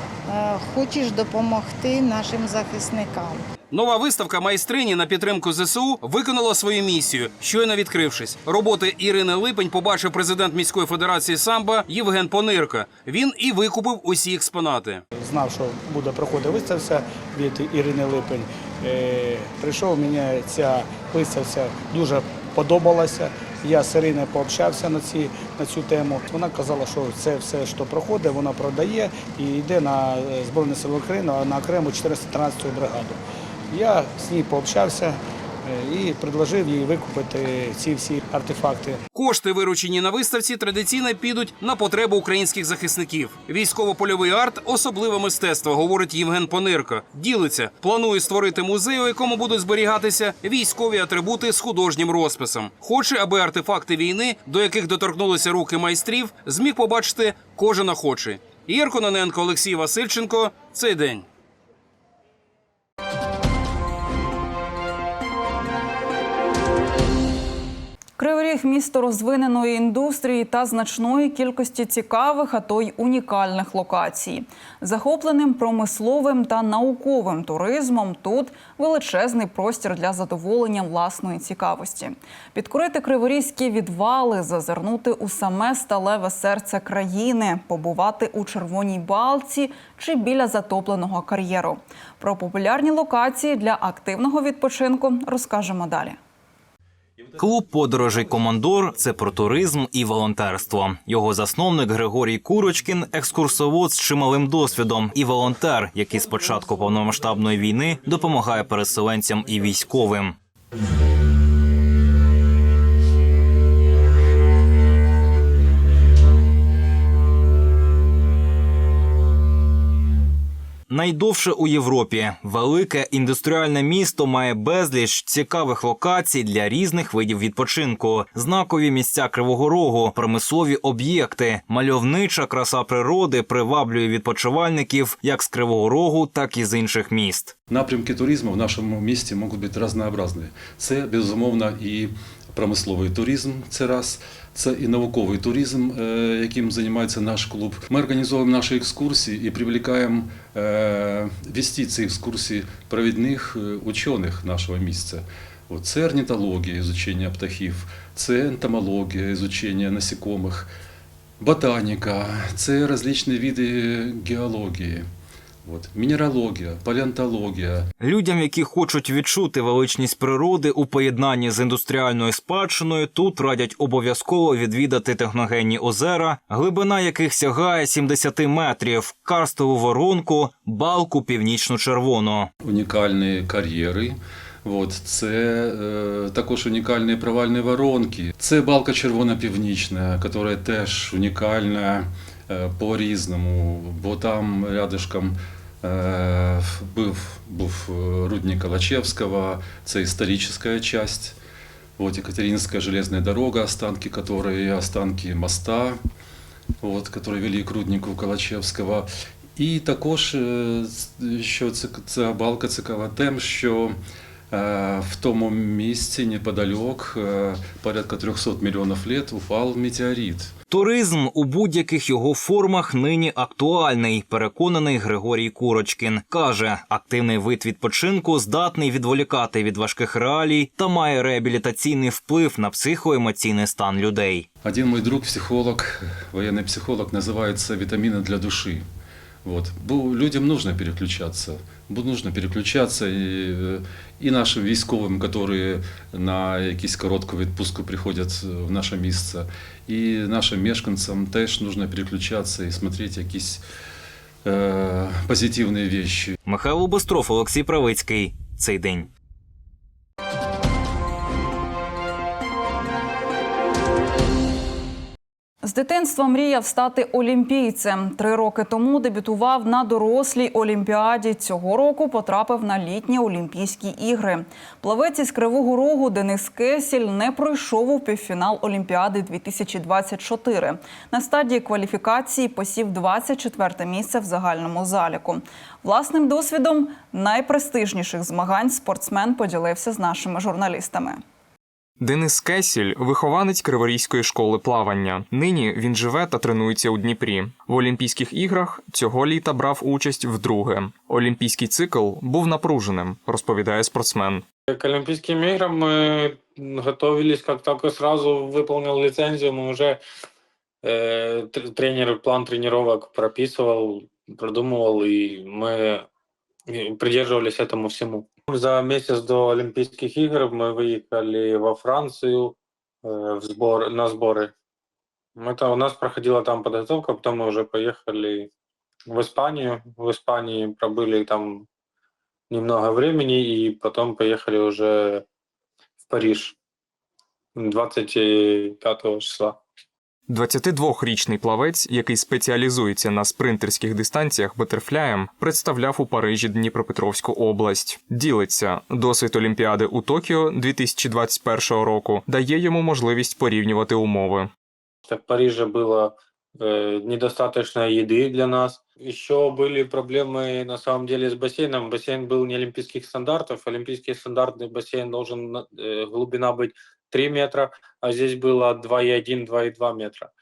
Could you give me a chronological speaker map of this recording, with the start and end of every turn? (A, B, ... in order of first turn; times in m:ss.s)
0:00.3-0:03.4 A
0:03.7-0:15.0 B
0:15.1-0:33.2 C
0:33.7-0:39.0 C
0:39.1-1:01.3 B
1:08.2-1:36.2 D
1:37.4-1:50.4 E
2:00.9-2:17.5 E
2:17.7-2:40.7 F
2:41.4-2:45.1 F
2:45.6-2:47.9 F
2:48.0-3:02.5 E
3:02.6-3:21.4 F
3:22.0-3:26.0 F
3:26.8-3:34.0 F
3:34.5-3:40.5 F
3:40.7-3:54.5 E
3:54.6-3:58.8 F
3:59.4-4:13.6 F
4:14.4-4:16.3 F
4:16.4-4:19.1 E
4:25.6-4:51.2 D
4:52.0-5:04.4 G
5:04.7-5:10.0 H
5:10.8-5:16.1 H
5:16.7-5:24.5 H
5:25.4-5:28.5 H
5:29.1-5:31.7 H
5:32.5-5:35.2 H
5:36.1-5:36.6 H
5:37.6-5:39.6 H
5:40.3-5:54.5 G
5:55.1-6:10.3 H